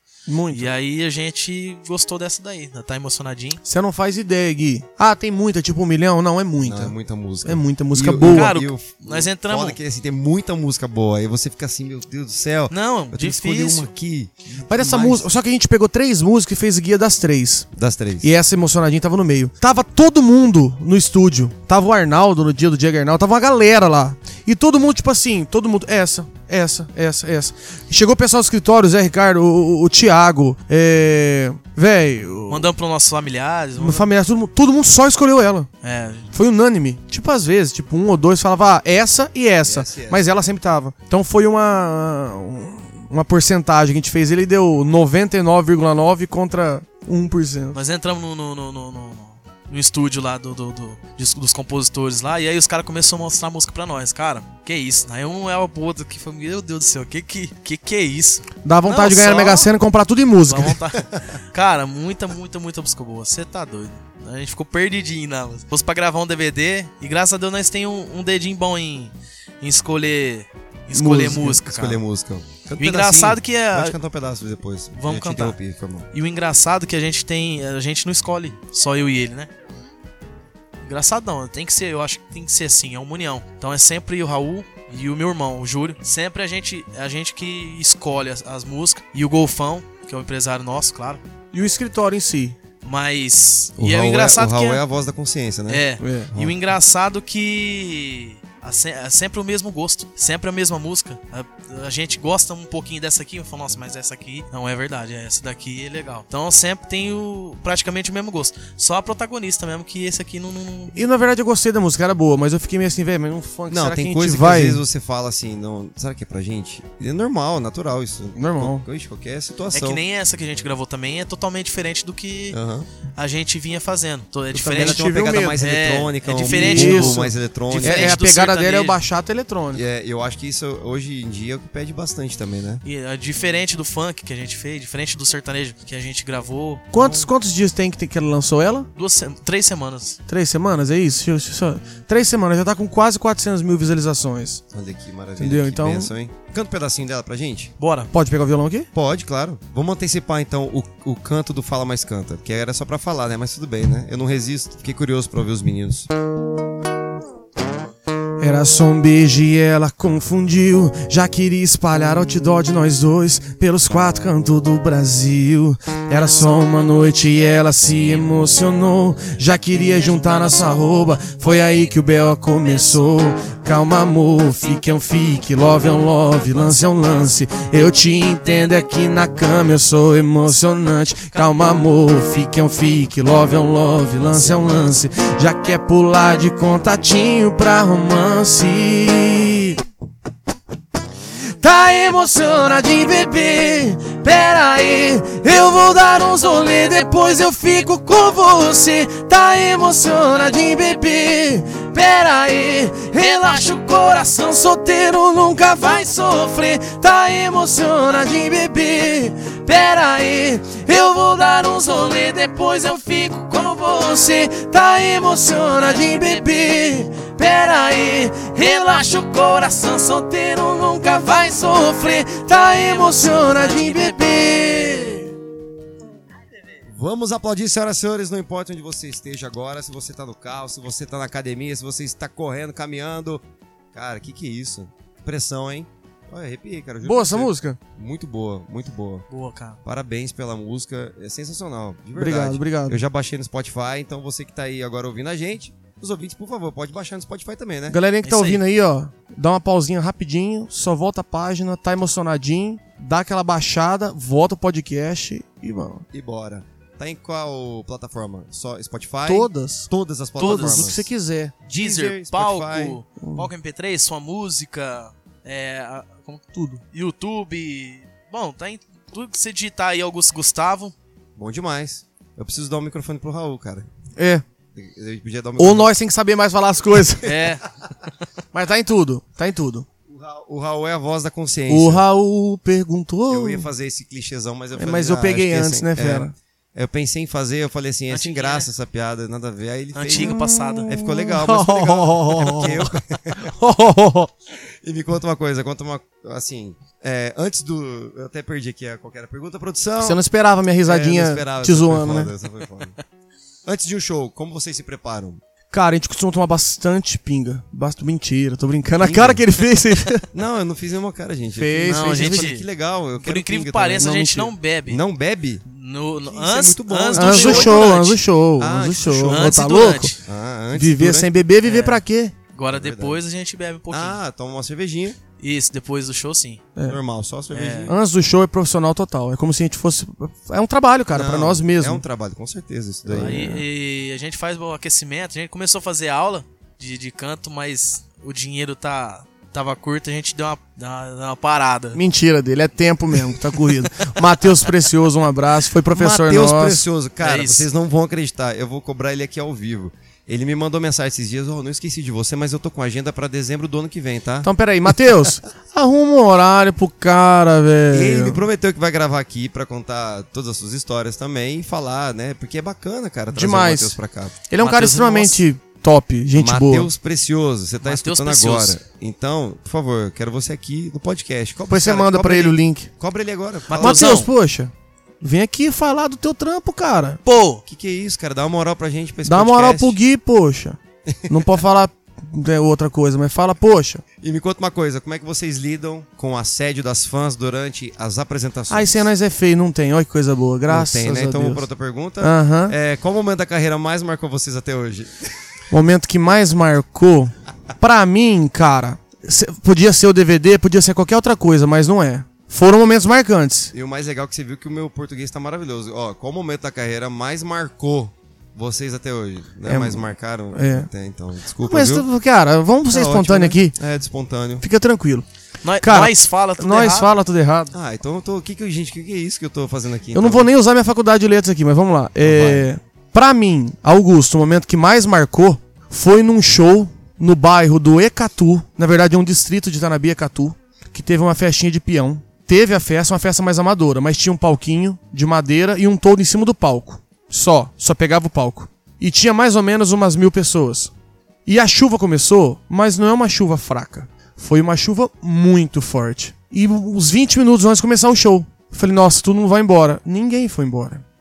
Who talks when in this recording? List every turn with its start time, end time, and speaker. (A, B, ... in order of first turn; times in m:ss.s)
0:00.3-0:00.7 A
0:00.5-0:03.6 B
0:03.6-0:08.5 A
0:06.6-0:15.2 C
0:08.2-0:09.8 B
0:12.7-0:13.9 B
0:14.7-0:17.7 A
0:14.8-0:15.2 B
0:17.7-0:18.3 C
0:18.2-0:32.7 A
0:32.5-0:34.1 B
0:33.8-0:35.7 A
0:35.8-0:36.3 B
0:36.3-0:47.8 A
0:39.6-0:40.3 C
0:47.7-0:59.7 B
0:58.6-1:00.8 A
1:00.4-1:12.0 B
1:10.9-1:11.6 A
1:11.6-1:16.1 C
1:12.8-1:14.0 B
1:14.9-1:15.6 B
1:16.1-1:19.5 B
1:20.8-1:31.2 B
1:31.5-1:32.6 A
1:32.8-1:34.8 B
1:33.8-1:36.6 C
1:35.7-1:51.0 B
1:36.0-1:36.3 A
1:50.9-1:54.8 A
1:53.7-2:00.0 C
1:58.4-1:58.8 A
1:59.7-2:02.6 B
2:02.5-2:02.9 C
2:03.2-2:09.0 B
2:04.5-2:05.6 A
2:04.5-2:08.2 C
2:06.4-2:09.8 A
2:09.7-2:12.8 C
2:12.8-2:17.3 B
2:16.9-2:18.9 A
2:19.0-2:20.2 B
2:20.3-2:24.6 A
2:24.7-2:27.7 C
2:25.4-2:26.1 A
2:27.8-2:28.1 B
2:28.1-2:28.9 A
2:28.9-2:36.1 C
2:38.4-3:09.8 A
2:49.7-2:50.9 B
3:11.6-3:45.3 A
3:43.2-3:44.3 B
3:46.9-3:59.2 C
3:57.0-3:57.8 A
3:59.3-3:59.8 B
3:59.8-4:08.0 C
4:02.2-4:03.0 A
4:07.9-4:16.0 A
4:08.2-4:08.6 B
4:16.1-4:21.1 C
4:19.2-4:21.6 A
4:20.4-4:20.9 B
4:21.6-4:23.0 C
4:21.7-4:30.9 B
4:23.2-4:23.5 A
4:26.5-4:26.8 A
4:31.4-4:33.9 C
4:34.2-4:34.4 A
4:34.7-4:35.9 C
4:35.6-4:37.3 A
4:37.2-4:37.6 B
4:38.5-4:39.8 A
4:40.1-4:42.0 C
4:41.7-4:43.7 A
4:43.3-4:53.5 C
4:44.8-4:46.3 A
4:48.1-4:48.7 B
4:49.9-4:50.9 B
4:50.1-4:54.3 A
4:54.8-5:00.2 C
5:00.0-5:02.3 A
5:00.8-5:03.0 C
5:03.6-5:05.4 C
5:05.7-5:10.2 A
5:09.0-5:09.4 C
5:10.3-5:14.1 C
5:11.6-5:12.5 A
5:11.8-5:12.6 B
5:13.2-5:15.0 B
5:14.0-5:14.5 A
5:14.9-5:15.6 C
5:15.6-5:18.2 B
5:16.3-5:18.0 C
5:17.1-5:20.1 A
5:18.6-5:19.5 C
5:19.3-5:20.2 B
5:20.2-5:21.4 C
5:20.7-5:22.3 A
5:21.6-5:22.0 B
5:22.5-5:24.2 B
5:22.7-5:23.2 C
5:23.9-5:25.2 C
5:25.4-5:26.6 B
5:26.8-5:28.0 C
5:27.5-5:27.9 B
5:27.8-5:32.0 A
5:31.1-5:33.5 C
5:33.0-5:33.6 A
5:33.1-5:42.0 B
5:41.9-5:46.8 A
5:45.9-5:54.5 C
5:47.2-5:47.7 B
5:54.4-5:58.4 A
5:57.9-6:04.4 C
6:03.3-6:04.0 A
6:04.5-6:06.9 A
6:04.6-6:05.4 B
6:06.3-6:14.3 C
6:07.8-6:08.8 B
6:11.7-6:12.9 A
6:13.7-6:14.3 B
6:13.8-6:17.2 A
6:17.2-6:17.6 B
6:17.7-6:20.0 C
6:19.2-6:24.0 A
6:21.1-6:21.5 C
6:24.2-6:29.1 C
6:28.7-6:31.6 A
6:30.7-6:35.3 C
6:32.2-6:32.7 A
6:35.7-6:43.7 A
6:43.7-6:52.0 C
6:49.6-6:50.9 A
6:51.6-6:53.7 A
6:52.9-6:54.6 C
6:54.6-6:55.3 A
6:55.6-6:57.1 B
6:55.8-6:57.7 A
6:57.7-7:00.5 C
7:00.1-7:20.9 A
7:02.2-7:02.7 C
7:21.4-7:31.0 A